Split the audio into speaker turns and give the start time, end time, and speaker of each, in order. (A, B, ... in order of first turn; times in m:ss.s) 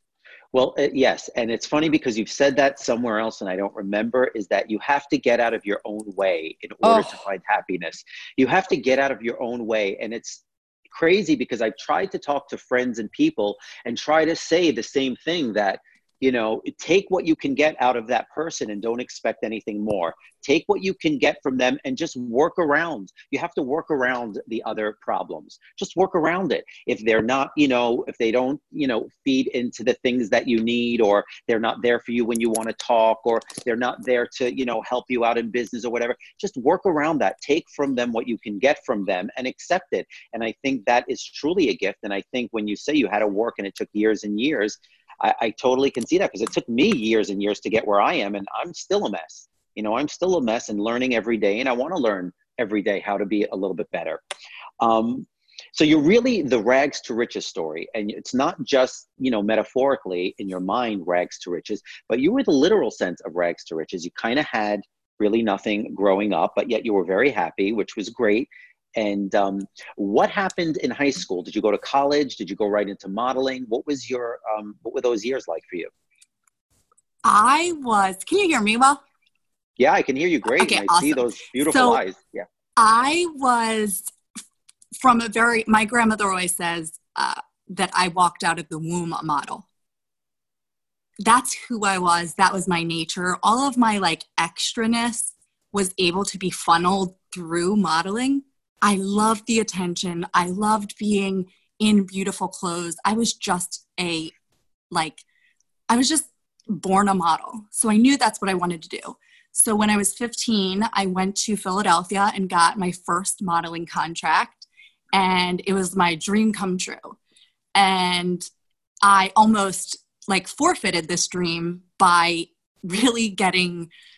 0:00.5-0:54.2 A
0:06.8-0:07.2 B
0:54.8-1:15.9 A
1:17.2-1:19.0 B
1:19.8-1:22.4 A
1:20.5-1:22.0 B
1:22.8-1:24.1 B
1:24.9-1:29.6 B
1:31.2-1:44.3 B
1:44.9-1:45.2 B
1:45.9-1:57.2 B
1:57.7-1:58.4 B
1:59.0-2:03.9 B